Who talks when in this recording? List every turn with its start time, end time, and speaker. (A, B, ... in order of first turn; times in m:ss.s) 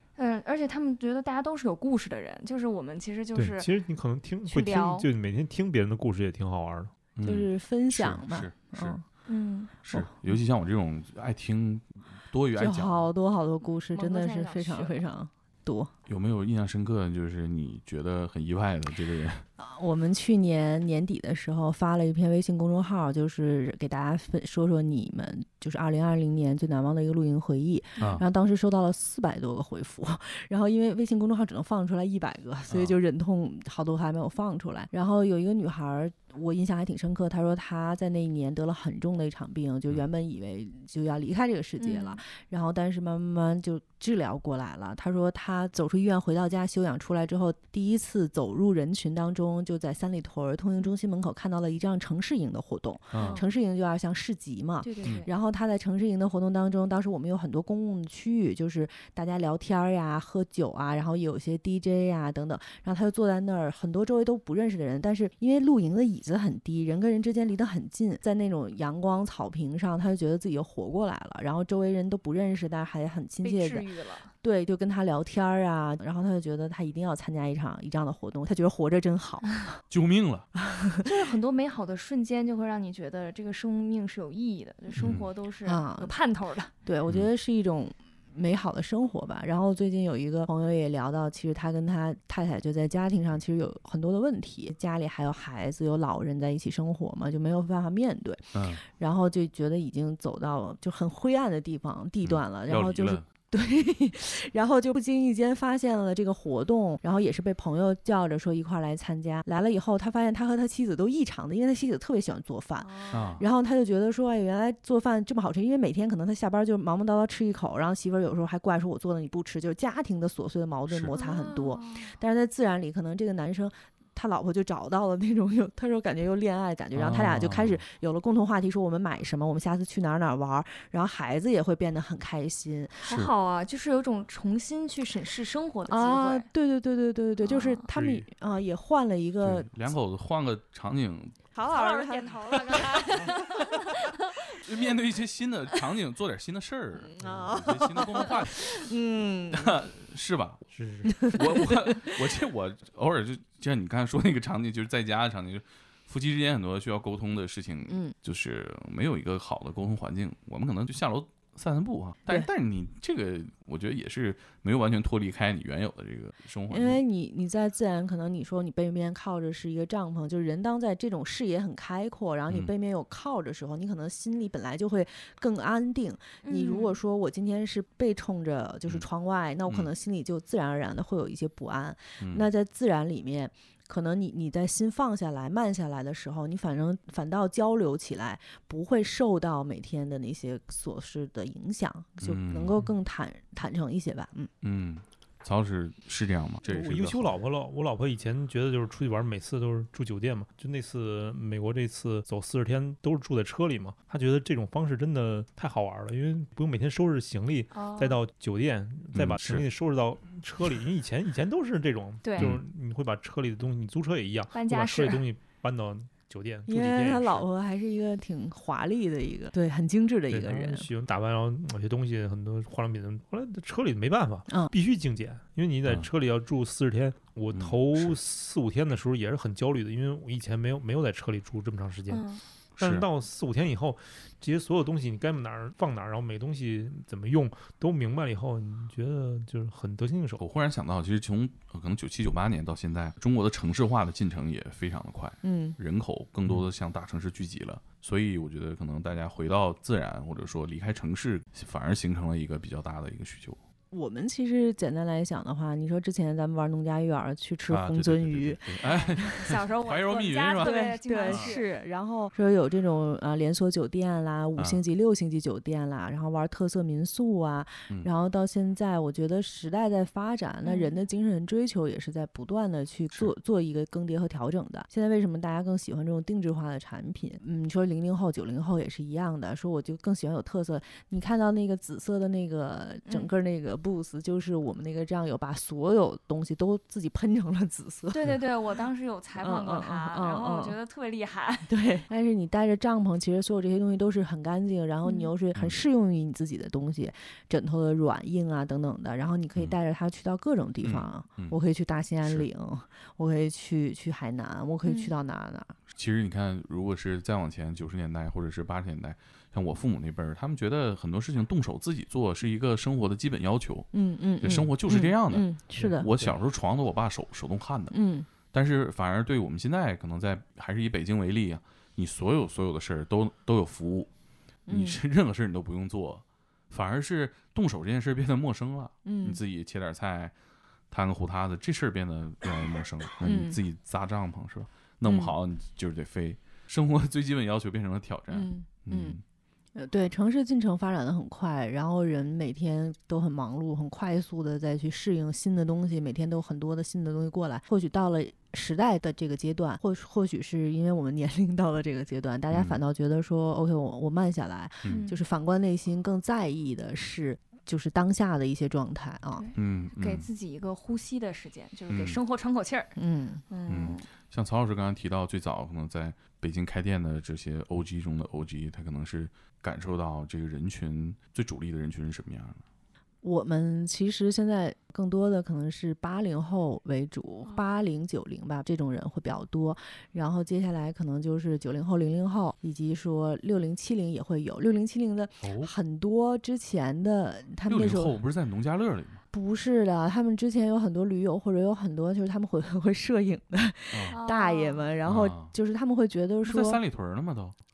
0:00.2-0:03.7 A
0:03.3-0:06.9 B
0:04.5-0:05.1 A
0:07.2-0:09.0 C
0:07.2-0:09.0 D
0:09.3-0:09.7 A
0:09.8-0:13.1 C
0:12.6-0:15.9 D
0:13.9-0:15.0 A
0:16.1-0:19.4 C
0:19.6-1:13.9 D
0:28.0-0:28.2 C
0:32.7-0:33.0 C
0:41.8-0:42.2 A
0:53.1-0:53.4 C
0:53.1-0:53.5 A
0:54.8-0:55.3 A
1:13.4-1:14.3 A
1:14.4-1:19.8 D
1:19.9-1:20.5 C
1:20.6-1:21.0 D
1:21.0-1:26.7 A
1:25.0-1:25.3 C
1:25.6-1:26.1 D
1:26.8-2:13.0 D
1:38.5-1:38.8 C
1:42.2-1:43.2 C
1:52.8-1:53.4 A
1:53.1-1:53.4 C
2:00.9-2:01.1 C
2:01.1-2:02.1 A
2:06.9-2:07.8 C
2:13.0-2:16.5 A
2:13.0-2:13.3 C
2:15.9-2:19.7 D
2:17.4-2:17.8 A
2:17.9-2:18.3 B
2:19.4-2:21.4 C
2:21.5-2:23.2 D
2:21.7-2:24.6 A
2:24.6-2:28.8 C
2:27.0-2:29.7 D
2:27.2-2:27.6 B
2:29.5-2:30.6 C
2:30.7-2:31.2 B
2:31.1-2:32.0 D
2:31.2-2:47.0 C
2:37.9-2:38.1 D
2:46.7-3:14.5 D
2:56.4-2:57.0 A
3:02.2-3:02.5 C
3:12.2-3:12.8 C
3:14.6-3:17.4 C
3:16.6-3:37.5 B
3:27.7-3:28.2 A
3:29.1-3:29.6 C
3:32.2-3:32.5 A
3:32.4-3:32.6 C
3:34.5-3:35.2 A
3:36.7-3:40.9 D
3:40.3-4:00.4 B
3:47.5-3:48.2 C
3:52.1-3:52.4 A
3:52.8-3:53.0 C
4:00.4-4:13.6 C
4:05.4-4:05.8 D
4:13.9-4:18.7 D
4:17.7-4:21.5 C
4:18.8-4:21.6 A
4:20.6-4:48.2 D
4:24.6-4:24.8 C
4:30.6-4:30.9 A
4:48.1-4:51.7 A
4:49.4-4:50.8 D
4:51.7-5:05.7 D
4:55.0-4:55.3 A
5:00.8-5:01.6 C
5:04.8-5:05.1 A
5:05.9-5:18.0 C
5:13.9-5:16.1 D
5:15.8-5:16.4 B
5:17.9-5:18.2 D
5:18.5-5:24.1 C
5:24.7-5:25.0 D
5:24.7-5:30.3 C
5:29.0-5:29.4 D
5:30.9-5:39.2 C
5:33.2-5:33.6 D
5:35.0-5:35.3 D
5:38.3-5:39.2 D
5:39.7-5:59.5 D
5:52.5-5:52.8 C
5:54.8-5:55.2 A
5:59.4-6:02.9 A
5:59.5-6:00.3 C
6:01.9-6:02.2 C
6:03.0-6:03.4 D
6:03.5-6:04.0 A
6:03.7-6:12.6 C
6:13.2-6:28.2 D
6:25.4-6:25.7 C
6:27.7-6:29.2 C
6:29.3-6:36.8 D
6:33.9-6:34.2 C
6:34.1-6:34.9 A
6:35.0-6:35.5 C
6:36.4-6:37.6 C